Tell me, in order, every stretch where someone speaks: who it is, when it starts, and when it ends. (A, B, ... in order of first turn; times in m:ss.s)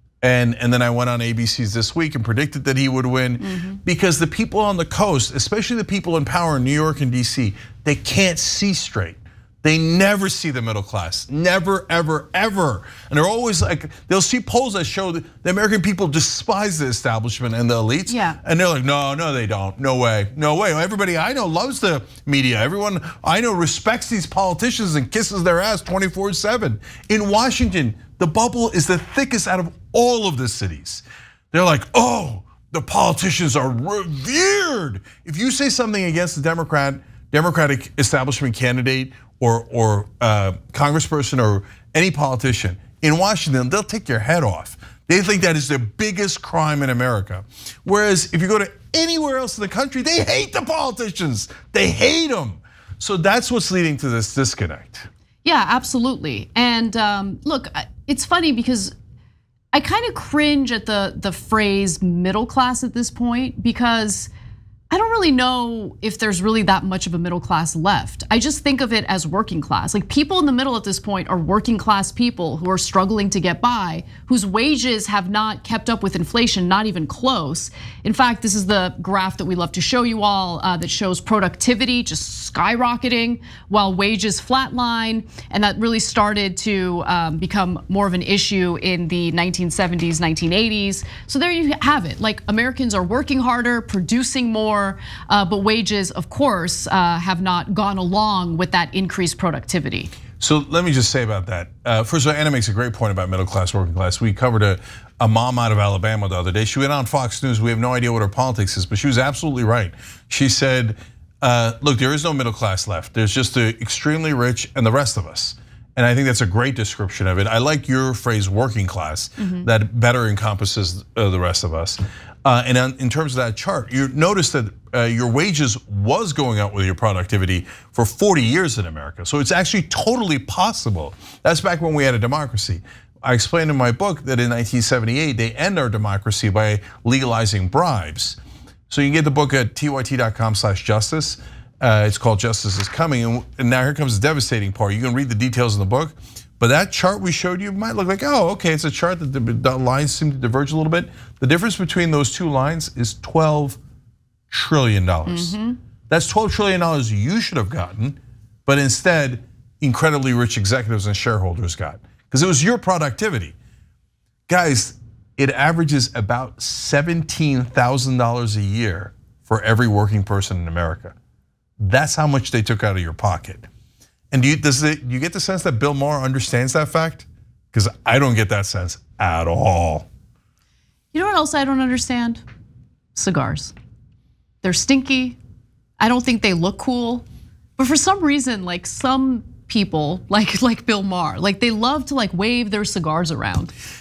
0:00.2-0:55.1 A
0:03.4-0:03.8 B
0:18.1-0:18.4 B
0:55.4-0:58.9 B
0:59.7-1:04.3 B
1:04.9-1:40.1 B
1:40.4-2:18.4 A
1:59.4-1:59.7 B
2:18.9-2:33.8 A
2:34.5-2:35.5 A
2:35.3-2:35.8 B
2:36.1-2:43.5 A
2:44.5-2:51.1 A
2:51.8-2:53.7 A
2:54.3-3:00.1 A
3:01.1-3:02.4 B
3:03.1-3:03.7 B
3:04.6-3:05.4 B
3:06.0-3:07.2 B
3:07.8-3:13.7 B